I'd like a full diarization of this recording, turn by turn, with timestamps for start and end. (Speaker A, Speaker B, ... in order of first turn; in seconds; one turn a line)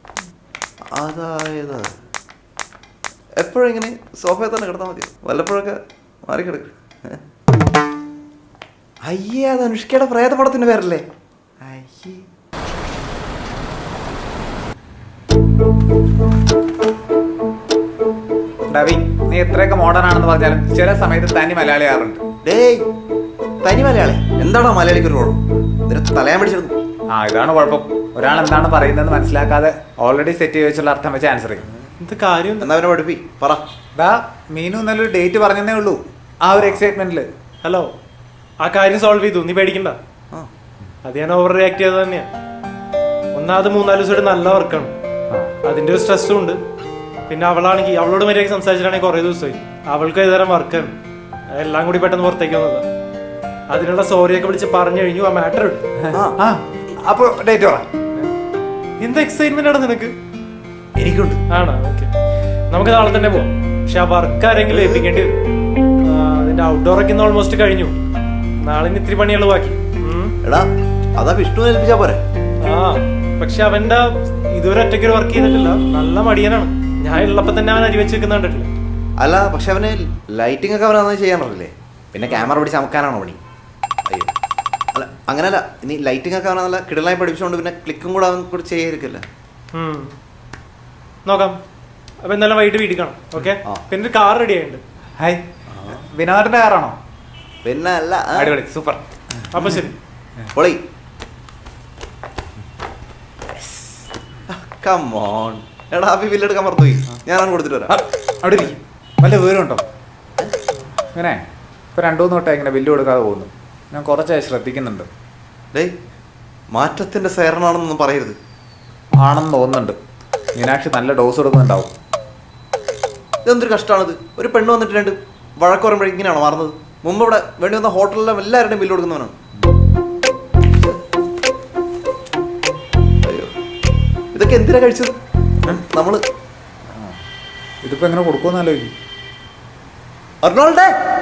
Speaker A: 0.9-1.9
Speaker A: 3.4-7.2
Speaker A: 9.0-11.0
Speaker A: 11.6-12.2
Speaker B: 18.7-22.2
Speaker A: 22.4-22.9
Speaker A: 23.6-26.8
Speaker B: 27.1-31.6
Speaker C: 32.0-32.7
Speaker A: 32.6-33.6
Speaker B: 34.0-37.3
Speaker A: 36.5-36.9
Speaker C: 37.6-37.9
Speaker C: 38.6-40.0
Speaker C: 41.0-42.3
Speaker C: 43.4-44.9
Speaker C: 45.6-46.6
Speaker C: 47.3-50.9
Speaker C: 51.5-52.8
Speaker C: 53.7-55.8
Speaker B: 56.0-57.8
Speaker C: 59.0-60.1
Speaker A: 61.0-61.4
Speaker C: 61.5-62.1
Speaker C: 62.7-65.4
Speaker A: 64.7-65.0
Speaker C: 66.0-68.0
Speaker C: 68.6-70.3
Speaker A: 71.2-72.2
Speaker C: 72.6-78.7
Speaker A: 79.2-83.4
Speaker C: 82.2-82.5
Speaker A: 84.9-89.2
Speaker C: 89.7-90.1
Speaker C: 91.2-91.6
Speaker C: 92.2-94.8
Speaker B: 95.2-97.0
Speaker A: 95.7-96.0
Speaker A: 97.6-98.5
Speaker B: 98.3-99.7
Speaker C: 99.5-99.9
Speaker A: 100.5-100.8
Speaker A: 104.5-108.0
Speaker B: 107.9-109.8
Speaker B: 111.1-111.4
Speaker B: 112.0-115.1
Speaker A: 116.7-118.3
Speaker B: 119.2-120.0
Speaker B: 120.5-121.9
Speaker A: 123.5-129.3
Speaker A: 130.7-131.0
Speaker A: 133.2-133.5
Speaker A: 134.3-135.1
Speaker A: 135.7-136.2
Speaker B: 136.9-137.2
Speaker B: 137.8-138.9
Speaker A: 140.4-140.9